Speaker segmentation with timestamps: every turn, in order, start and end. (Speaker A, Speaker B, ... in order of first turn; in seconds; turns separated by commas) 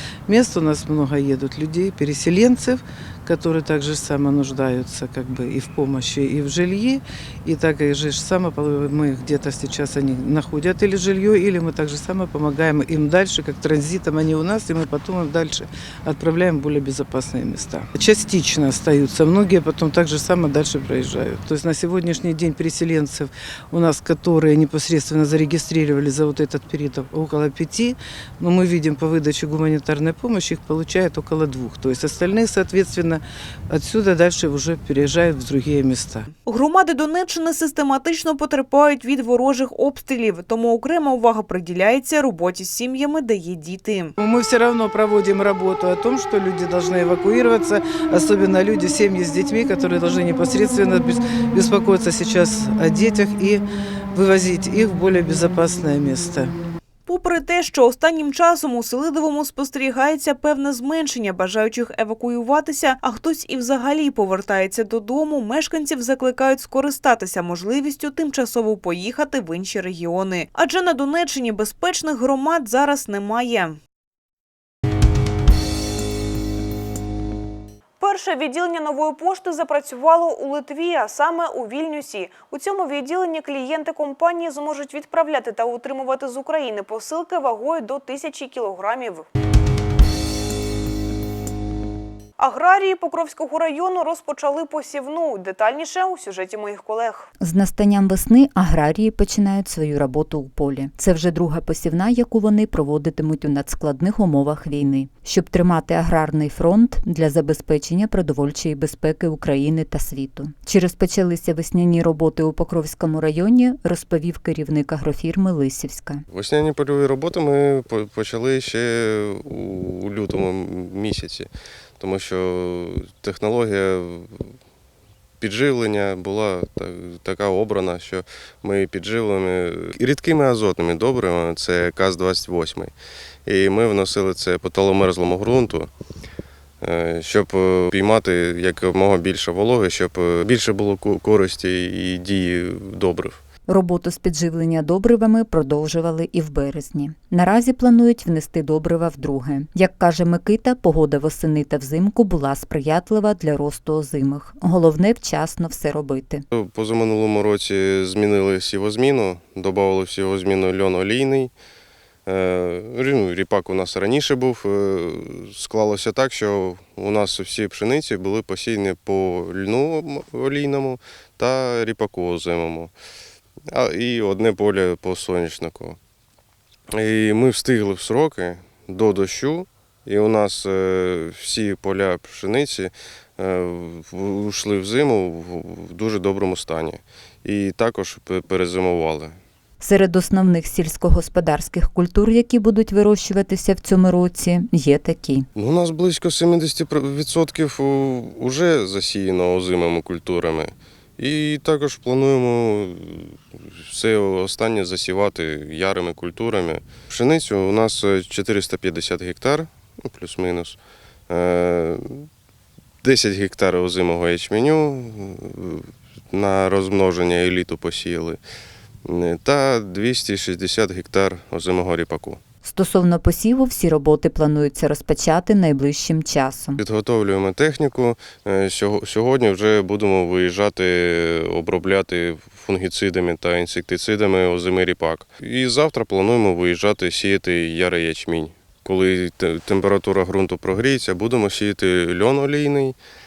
Speaker A: 0.3-36.3, Speaker B: 36.5-44.1, Speaker A: 44.2-56.6, Speaker B: 57.1-73.8, Speaker B: 78.0-89.3, Speaker B: 92.4-97.3, Speaker C: 97.4-116.2, Speaker D: 116.3-124.4, Speaker D: 125.4-132.9, Speaker D: 133.4-135.9, Speaker D: 136.8-143.4, Speaker C: 143.7-156.4, Speaker D: 156.5-161.5, Speaker D: 162.3-172.9, Speaker D: 173.7-176.0, Speaker D: 176.9-189.4, Speaker C: 189.8-195.5, Speaker D: 195.6-210.8, Speaker D: 211.3-212.3, Speaker D: 213.0-218.4, Speaker D: 219.1-222.4, Speaker C: 222.6-226.8, Speaker D: 226.8-243.0